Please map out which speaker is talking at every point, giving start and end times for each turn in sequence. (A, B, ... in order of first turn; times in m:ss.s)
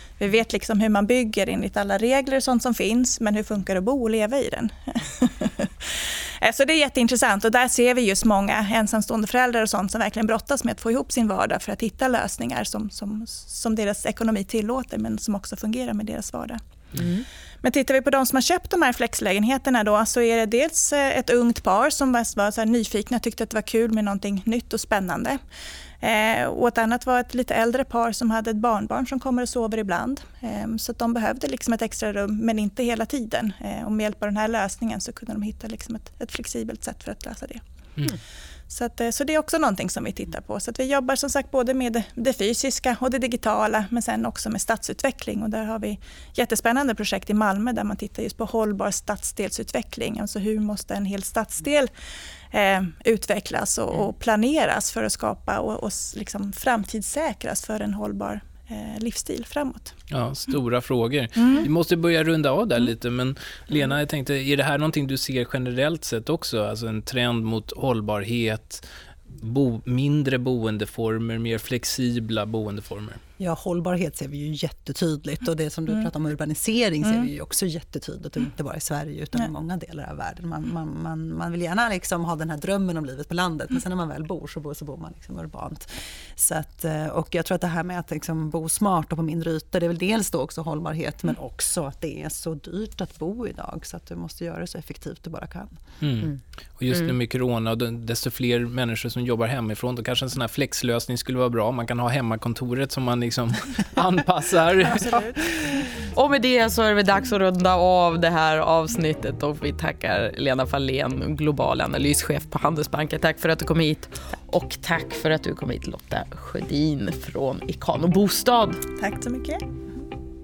0:00.2-0:16.6 A
0:17.0-0:17.2 B
0:17.6-0:25.4 A
0:26.0-0:37.6 A
0:38.7-0:51.9 A
0:52.5-0:59.9 A
1:00.1-1:08.8 C
1:01.4-1:01.6 A
1:09.4-1:13.2 C
1:13.4-1:35.8 D
1:36.0-1:45.1 C
1:44.9-1:45.3 A
1:46.1-1:58.8 B
1:59.0-1:59.6 A